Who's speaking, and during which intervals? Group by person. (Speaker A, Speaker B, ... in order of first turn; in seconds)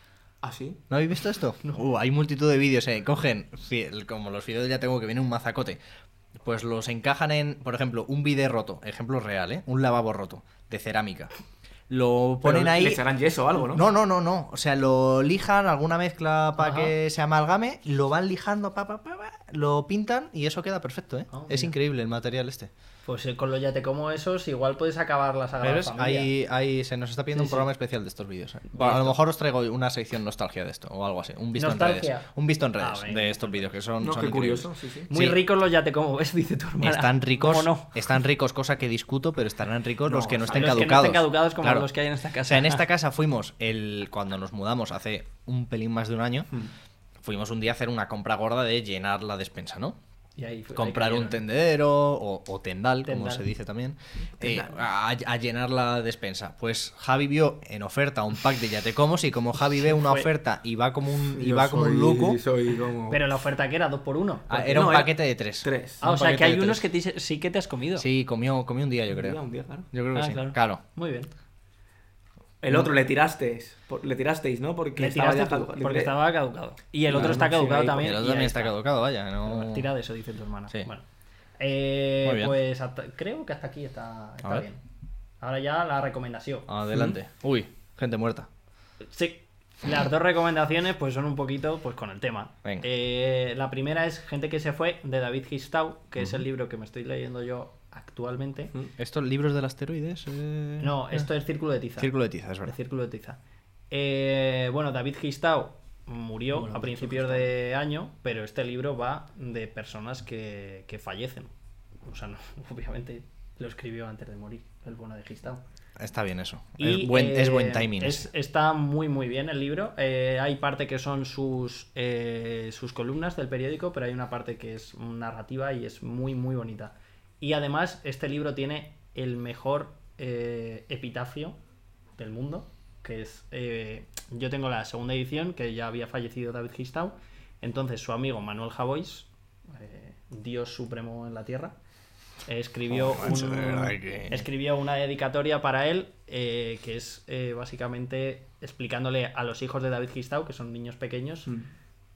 Speaker A: 0.4-0.8, 12.4-13.8, 34.0-35.1, 40.0-40.9, 54.4-54.8, 61.3-63.2, 64.7-66.0, 69.1-69.9, 72.6-76.1, 77.1-78.1, 106.5-107.5
Speaker B: 0.9-5.8, 6.4-11.3, 11.9-13.0, 13.6-22.7, 25.6-35.4, 36.8-41.9, 42.4-46.5, 47.2-50.0, 50.7-62.4, 64.5-66.8, 68.0-69.4, 69.9-70.8, 77.1-79.9, 82.2-82.5, 86.7-88.5, 96.2-96.4, 99.0-101.2, 102.0-102.7, 116.0-118.3, 142.9-144.4
Speaker C: 16.6-16.9, 21.3-21.7, 23.0-26.3, 27.3-27.7, 28.7-29.1, 31.5-33.6, 35.1-37.9, 40.5-42.8, 50.4-51.4, 53.0-53.5, 59.8-60.3, 63.1-65.0, 66.0-68.0, 70.1-71.3, 75.0-78.8, 79.4-81.0, 81.6-84.8, 85.4-86.7, 89.0-98.7, 100.8-102.1, 102.6-103.4, 103.9-111.5, 112.0-115.6, 116.8-131.6, 132.2-141.7, 142.4-151.5